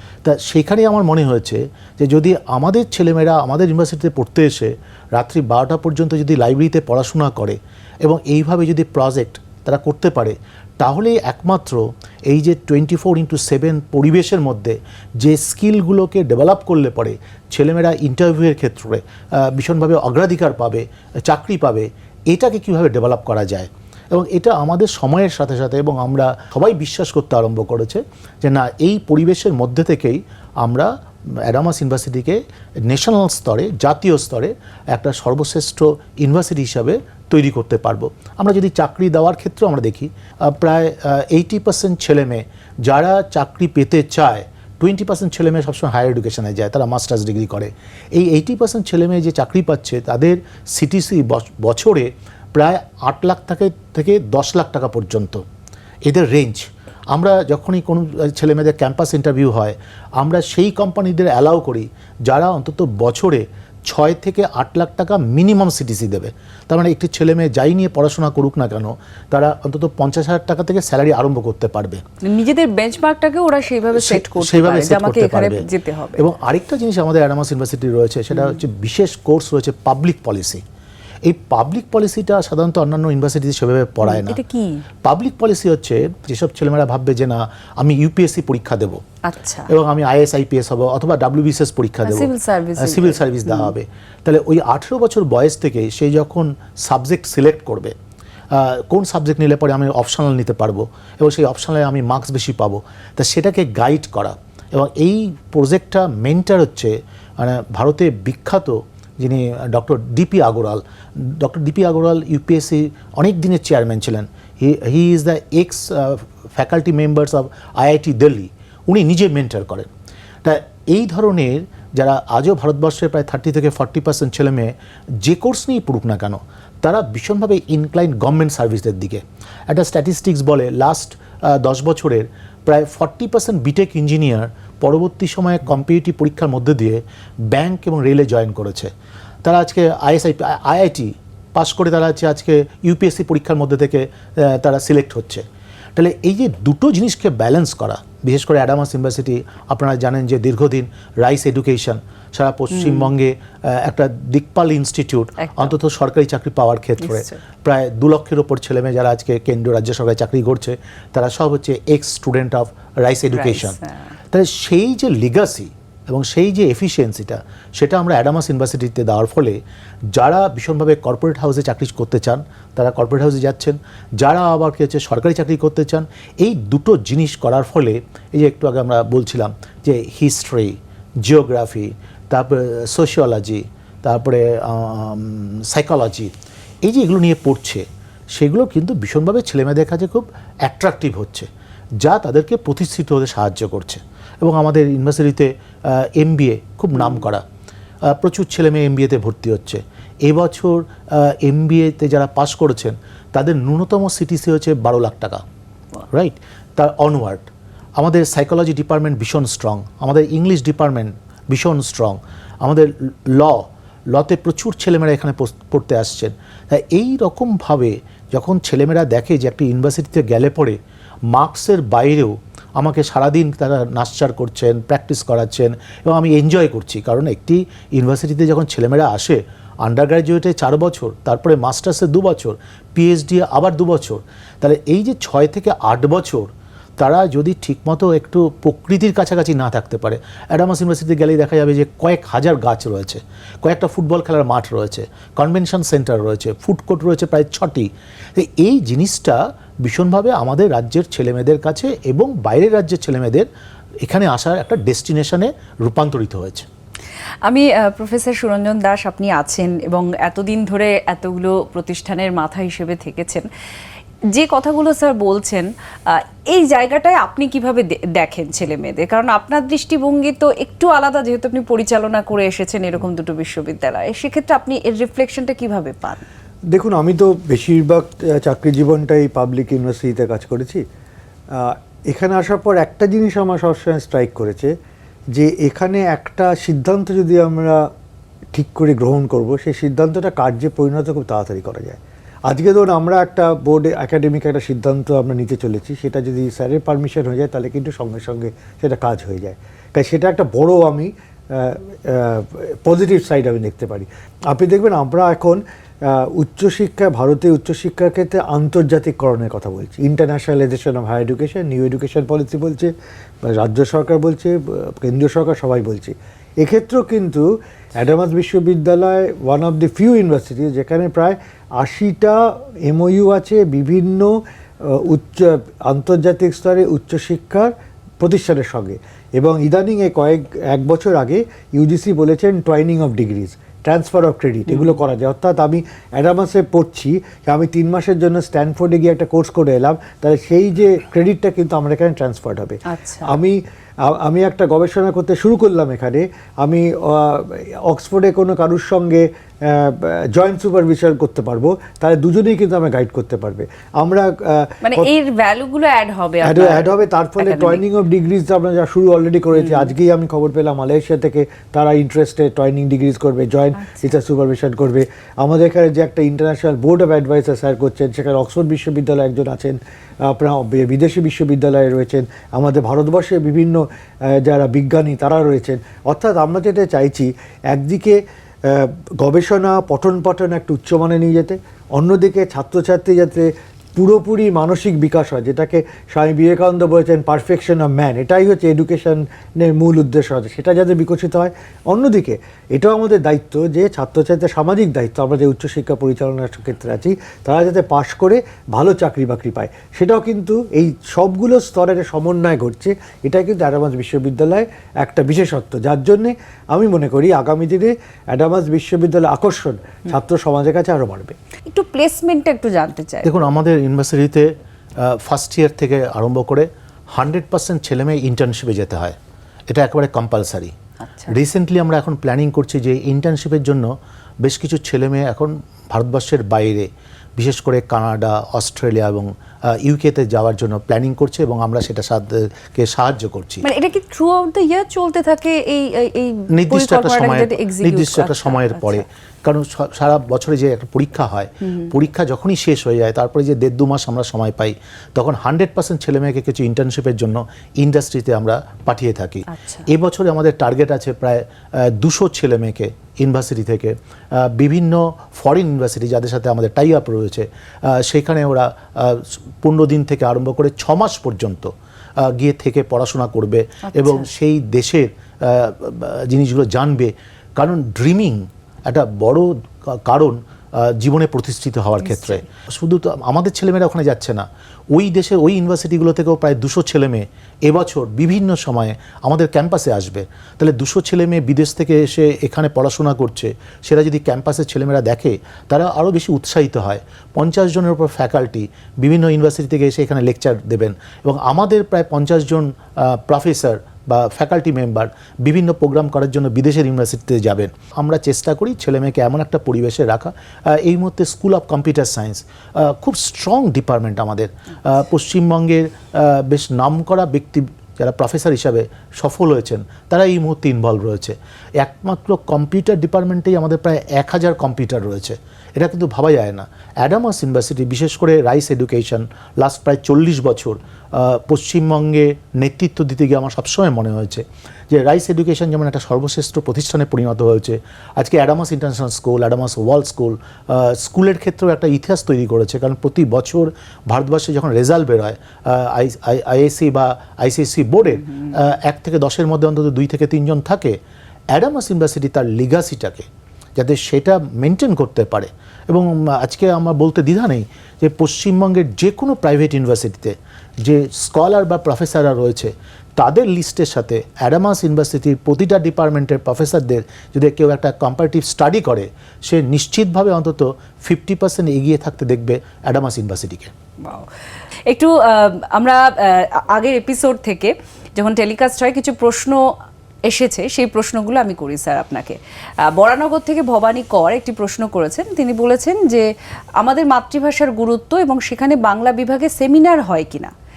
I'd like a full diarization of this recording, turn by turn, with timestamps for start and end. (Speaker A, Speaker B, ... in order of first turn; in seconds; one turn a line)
Speaker A: 0.2-30.9
Speaker A: 31.4-55.4
Speaker A: 56.0-72.0
Speaker B: 72.2-76.2
Speaker A: 74.0-75.6
Speaker A: 76.2-80.6
Speaker A: 81.2-84.4
Speaker B: 84.0-84.8
Speaker A: 85.0-89.0
Speaker B: 89.2-89.7
Speaker A: 89.7-97.9
Speaker B: 92.0-93.7
Speaker A: 98.5-119.9
Speaker A: 120.4-138.9
Speaker A: 139.4-145.4
Speaker A: 145.9-163.8
Speaker B: 152.7-153.1
Speaker B: 155.4-155.7
Speaker B: 157.0-157.4
Speaker B: 163.3-164.1
Speaker A: 164.3-169.6
Speaker A: 170.1-186.3
Speaker A: 186.8-191.5
Speaker A: 192.0-197.4
Speaker A: 198.1-205.4
Speaker A: 206.1-207.4
Speaker A: 208.0-220.8
Speaker A: 221.3-253.5
Speaker A: 254.0-256.6
Speaker B: 257.4-263.5
Speaker B: 264.3-276.3
Speaker C: 276.7-280.8
Speaker C: 281.5-284.7
Speaker C: 285.3-287.9
Speaker C: 288.5-312.9
Speaker C: 313.4-355.1
Speaker B: 334.7-335.0
Speaker B: 342.9-343.3
Speaker B: 354.8-357.8
Speaker C: 356.4-411.4
Speaker B: 359.6-359.9
Speaker B: 363.8-364.1
Speaker B: 411.7-413.3
Speaker A: 413.2-419.1
Speaker A: 419.7-420.7
Speaker B: 421.0-421.3
Speaker A: 421.3-433.6
Speaker B: 433.6-439.0
Speaker A: 436.5-541.0
Speaker B: 441.6-441.9
Speaker B: 449.5-449.9
Speaker B: 463.9-464.3
Speaker B: 472.0-472.4
Speaker A: 541.5-563.7
Speaker B: 564.0-564.3
Speaker B: 564.9-569.7
Speaker B: 570.3-580.5